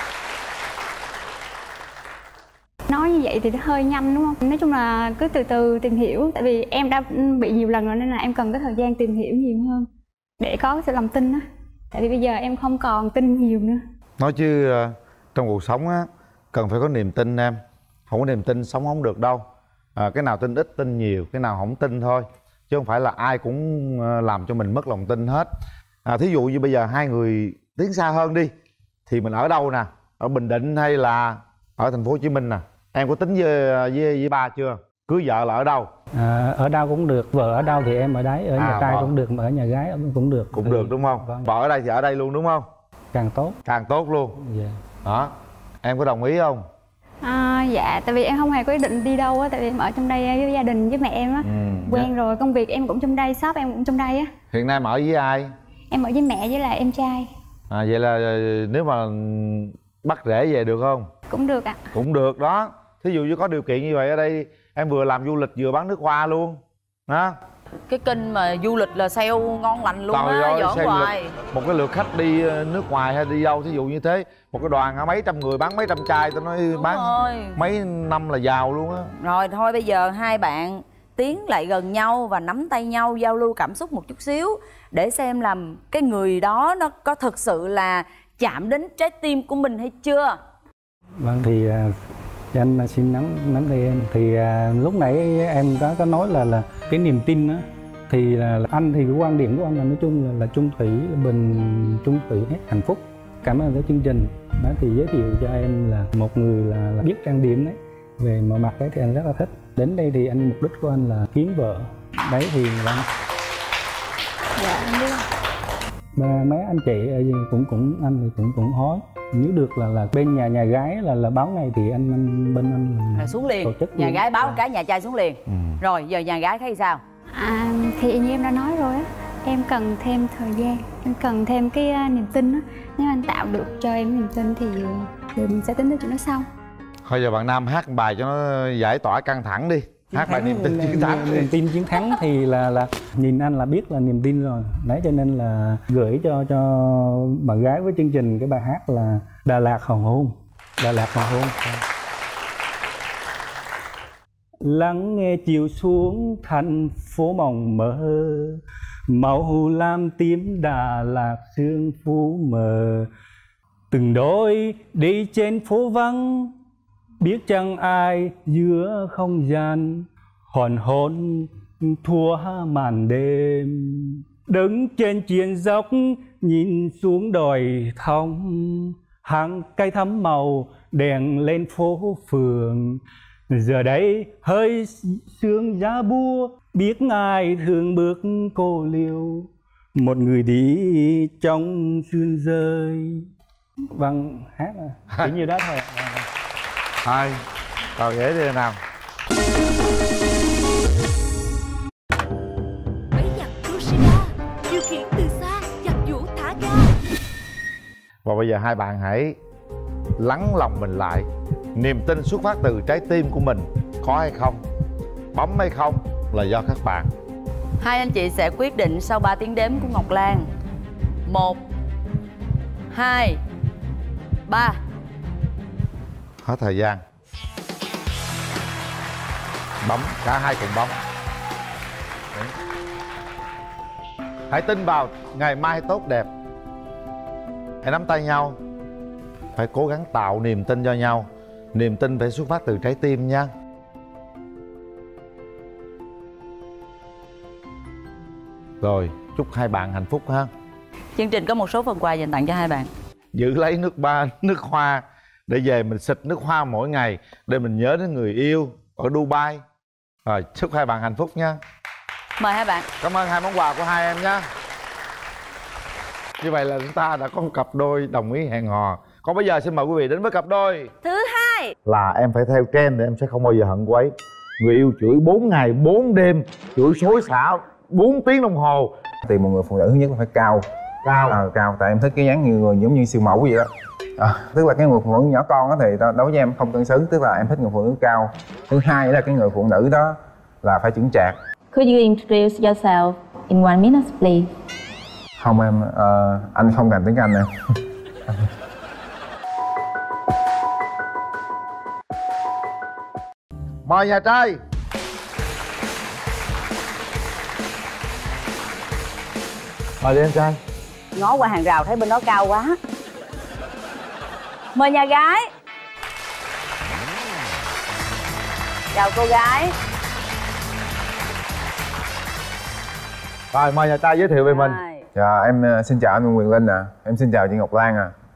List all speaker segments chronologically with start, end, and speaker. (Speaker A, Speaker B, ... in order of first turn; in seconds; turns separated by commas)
Speaker A: 2.9-9.9, Speaker A: 10.4-13.8, Speaker B: 14.2-19.4, Speaker B: 20.0-25.5, Speaker B: 26.1-28.5, Speaker B: 29.1-35.9, Speaker C: 36.1-41.5, Speaker B: 38.6-39.1, Speaker B: 40.5-42.7, Speaker C: 43.1-43.6, Speaker B: 43.7-44.4, Speaker C: 44.4-44.8, Speaker B: 45.0-46.6, Speaker A: 47.2-54.3, Speaker B: 51.4-52.1, Speaker B: 54.5-55.5, Speaker A: 55.9-57.3, Speaker B: 57.7-61.1, Speaker A: 61.3-61.8, Speaker B: 61.9-67.4, Speaker D: 67.9-71.3, Speaker B: 70.1-79.1, Speaker D: 76.7-77.6, Speaker D: 79.2-90.4, Speaker C: 91.2-92.0, Speaker C: 92.5-113.1, Speaker A: 114.6-115.2, Speaker C: 116.2-124.6, Speaker D: 123.2-127.0, Speaker B: 125.5-125.8, Speaker A: 127.3-136.5, Speaker B: 137.1-141.5, Speaker C: 140.1-151.8, Speaker C: 154.6-163.1, Speaker C: 163.9-166.5, Speaker C: 167.2-193.2, Speaker C: 193.9-196.3, Speaker B: 197.0-197.4, Speaker B: 198.0-198.8, Speaker B: 208.2-209.4, Speaker B: 210.2-214.6, Speaker B: 215.3-217.1, Speaker D: 217.8-220.5, Speaker D: 221.3-221.6, Speaker D: 222.9-223.4, Speaker D: 224.5-224.8, Speaker B: 226.4-227.0, Speaker B: 229.8-231.0, Speaker B: 234.5-236.3, Speaker B: 237.8-238.6, Speaker B: 239.6-243.5, Speaker B: 248.8-250.5, Speaker D: 251.2-252.9, Speaker B: 253.3-259.6, Speaker B: 260.2-261.6, Speaker D: 262.4-262.9, Speaker B: 263.0-264.4, Speaker B: 266.4-270.9, Speaker D: 271.0-271.7, Speaker B: 271.9-278.9, Speaker E: 279.2-280.6, Speaker B: 281.0-281.4, Speaker E: 281.3-291.4, Speaker F: 291.7-294.5, Speaker E: 295.4-297.6, Speaker B: 303.9-304.6, Speaker B: 310.0-310.6, Speaker D: 311.1-312.8, Speaker D: 314.8-315.5, Speaker D: 318.9-319.8, Speaker B: 323.5-324.8, Speaker D: 324.5-325.1, Speaker E: 325.1-328.1